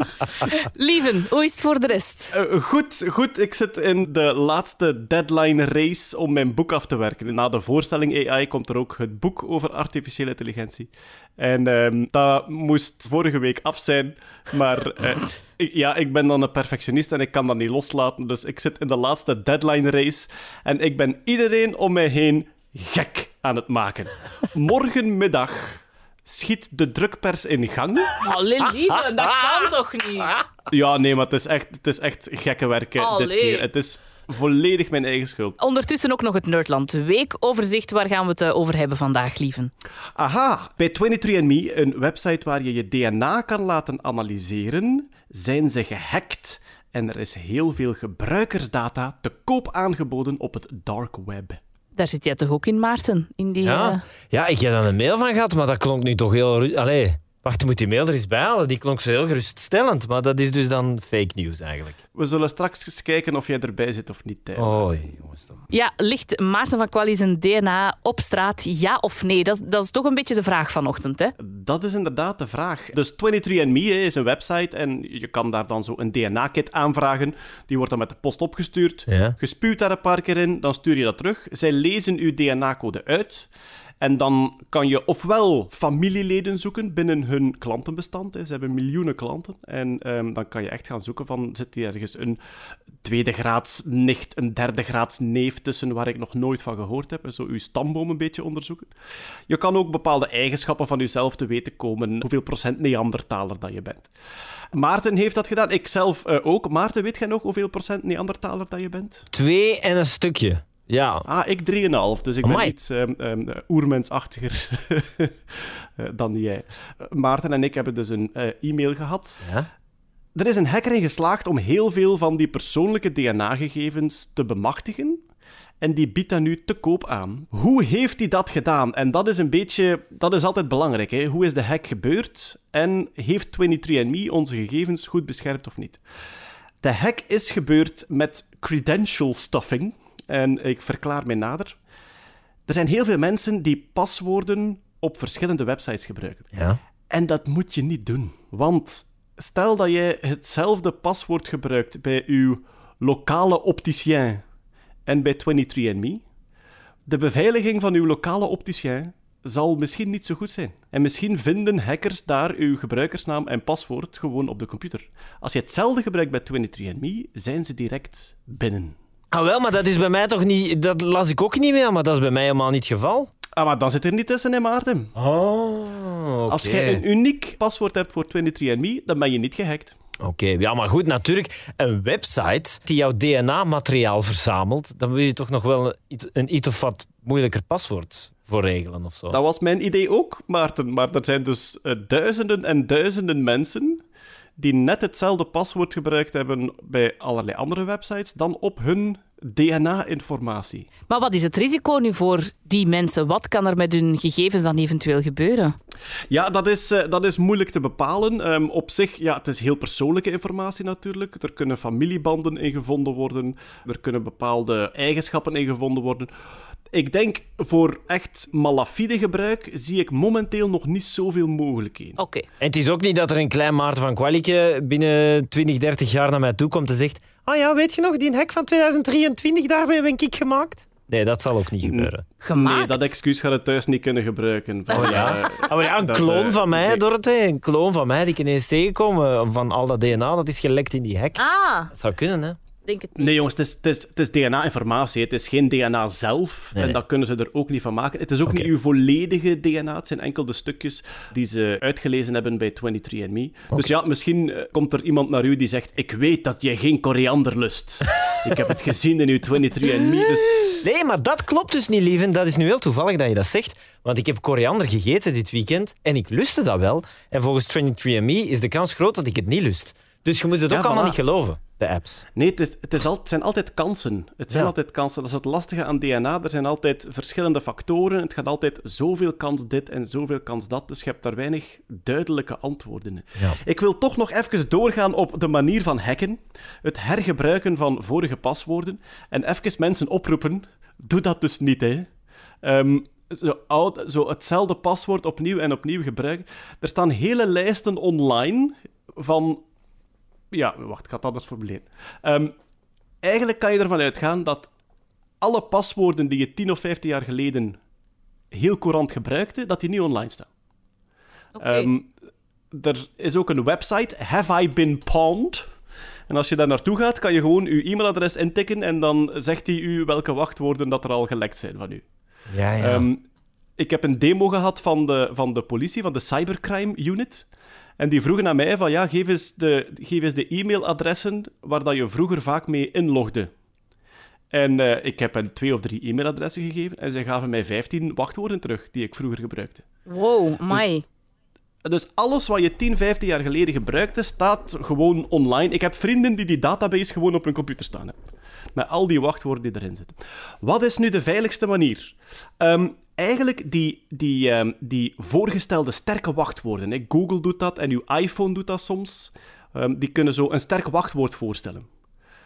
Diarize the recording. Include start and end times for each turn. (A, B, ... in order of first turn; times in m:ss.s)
0:00.5-0:02.3 A
0:02.3-0:28.2 B
0:28.2-0:30.4 A
0:30.7-0:35.6 B
0:33.0-0:33.7 A
0:35.6-0:39.7 A
0:40.2-0:51.6 B
0:51.9-0:54.0 A
0:53.6-1:02.0 C
1:02.1-1:04.9 B
1:04.6-1:05.6 C
1:05.7-1:11.3 A
1:11.4-1:23.5 B
1:19.1-1:19.4 C
1:24.0-1:32.4 B
1:33.0-1:38.9 B
1:39.5-1:44.1 B
1:44.7-1:49.2 B
1:49.3-1:51.2 C
1:51.2-1:59.4 B
1:52.4-1:52.7 C
1:59.4-1:59.7 C
2:00.3-2:05.2 B
2:05.8-2:16.0 B
2:16.8-2:21.8 B
2:22.7-2:26.5 B
2:26.5-2:26.8 C
2:27.1-2:34.4 B
2:35.1-2:36.2 B
2:37.1-2:48.9 B
2:49.3-2:53.3 C
2:53.5-2:55.1 B
2:55.2-2:57.0 C
2:56.5-2:59.9 B
3:00.2-3:09.4 C
3:09.3-3:14.0 B
3:14.6-3:20.9 B
3:21.1-3:25.8 A
3:26.3-3:36.3 B
3:36.9-3:42.2 B
3:42.2-3:42.5 A
3:42.6-3:52.2 C
3:51.8-3:57.0 B
3:52.4-3:53.1 A
3:54.9-4:02.6 C
3:54.9-3:55.3 A
4:01.4-4:01.9 A
4:02.8-4:03.3 A
4:03.2-4:20.7 B
4:20.8-4:32.2 C
4:30.7-4:31.2 B
4:32.3-4:52.1 B
4:52.6-4:59.6 B
5:00.5-5:02.5 B
5:03.2-5:04.7 B
5:05.4-5:07.8 B
5:08.5-5:10.5 B
5:11.6-5:11.9 A
5:11.6-5:12.1 B
5:12.7-5:15.6 B
5:16.3-5:22.0 B
5:22.5-5:23.1 C
5:22.8-5:23.2 B
5:23.8-5:27.5 B
5:28.0-5:33.5 B
5:34.5-5:39.8 B
5:40.1-5:41.0 A
5:41.8-5:48.1 B
5:48.8-6:01.9 B